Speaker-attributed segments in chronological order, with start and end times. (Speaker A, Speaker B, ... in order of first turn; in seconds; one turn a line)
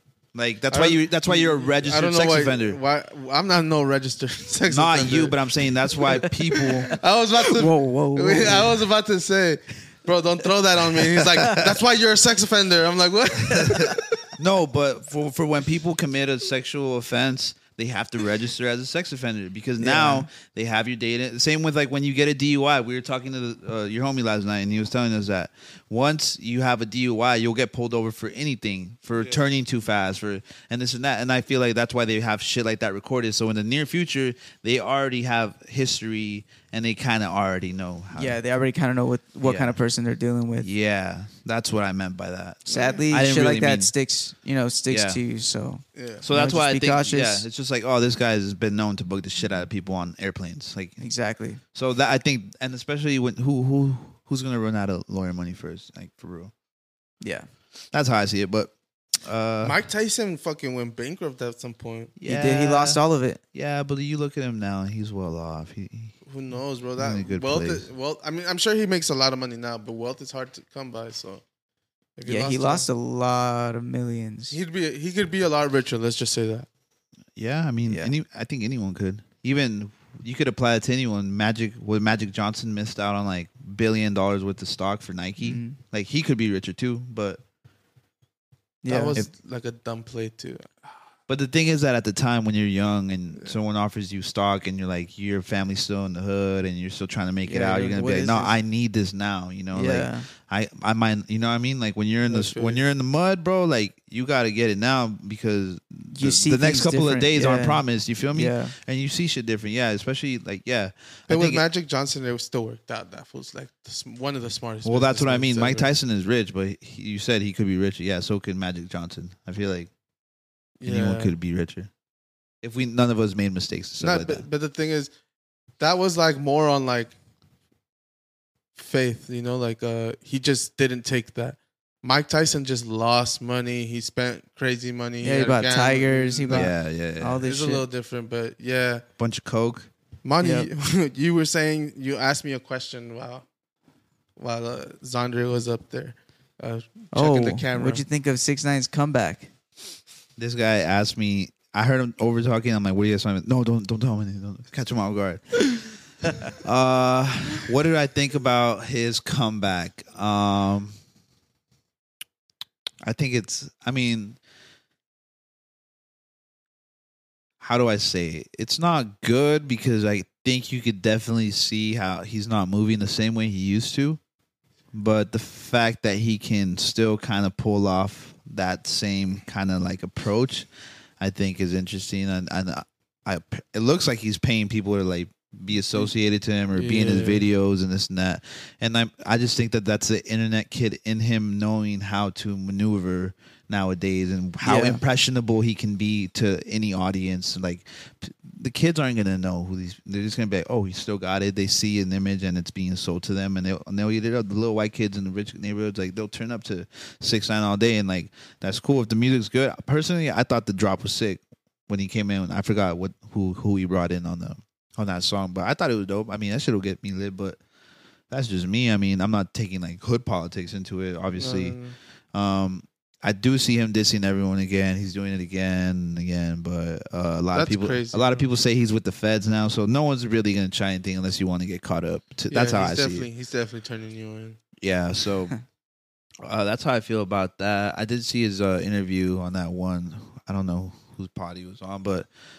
Speaker A: 0.3-2.8
Speaker B: 0.7-5.4
Speaker A: 4.7-7.0
Speaker B: 6.9-14.1
Speaker C: 7.5-8.8
Speaker A: 13.5-38.4
Speaker C: 19.8-20.3
Speaker C: 38.1-40.7
Speaker A: 39.4-39.8
Speaker A: 40.6-43.9
Speaker C: 42.7-47.5
Speaker B: 42.7-43.0
Speaker A: 44.9-45.2
Speaker B: 46.0-46.2
Speaker A: 46.2-51.0
Speaker C: 51.0-51.6
Speaker A: 51.7-56.5
Speaker C: 57.2-57.5
Speaker A: 57.9-59.8
Speaker B: 59.6-62.1
Speaker A: 62.2-63.0
Speaker C: 62.2-63.4
Speaker A: 63.5-66.1
Speaker B: 66.3-71.4
Speaker A: 67.0-67.9
Speaker B: 72.2-72.9
Speaker C: 72.3-74.5
Speaker B: 74.5-76.7
Speaker A: 77.4-87.4
Speaker C: 77.9-78.1
Speaker C: 85.4-85.8
Speaker C: 88.8-89.3
Speaker B: 88.9-90.9
Speaker A: 91.3-111.7
Speaker C: 97.5-98.5
Speaker C: 99.7-100.3
Speaker B: 102.3-102.8
Speaker C: 106.1-108.8
Speaker B: 111.3-115.9
Speaker A: 114.8-119.9
Speaker B: 120.8-121.3
Speaker A: 120.8-121.9
Speaker A: 122.6-124.5
Speaker B: 124.0-125.1
Speaker B: 125.8-127.1
Speaker B: 128.8-136.7
Speaker C: 135.2-137.9
Speaker A: 136.5-137.4
Speaker B: 137.4-139.0
Speaker A: 139.2-139.9
Speaker B: 140.2-143.4
Speaker C: 140.4-140.7
Speaker B: 144.4-148.0
Speaker C: 147.1-149.5
Speaker A: 150.4-155.9
Speaker A: 156.5-161.0
Speaker A: 163.0-164.4
Speaker A: 167.6-174.2
Speaker A: 174.9-180.7
Speaker A: 181.2-217.6
Speaker B: 186.7-187.4
Speaker C: 194.6-195.0
Speaker A: 218.3-221.8
Speaker B: 221.4-221.9
Speaker A: 222.3-233.3
Speaker B: 227.5-228.5
Speaker B: 232.5-234.6
Speaker A: 234.8-235.5
Speaker A: 236.4-242.3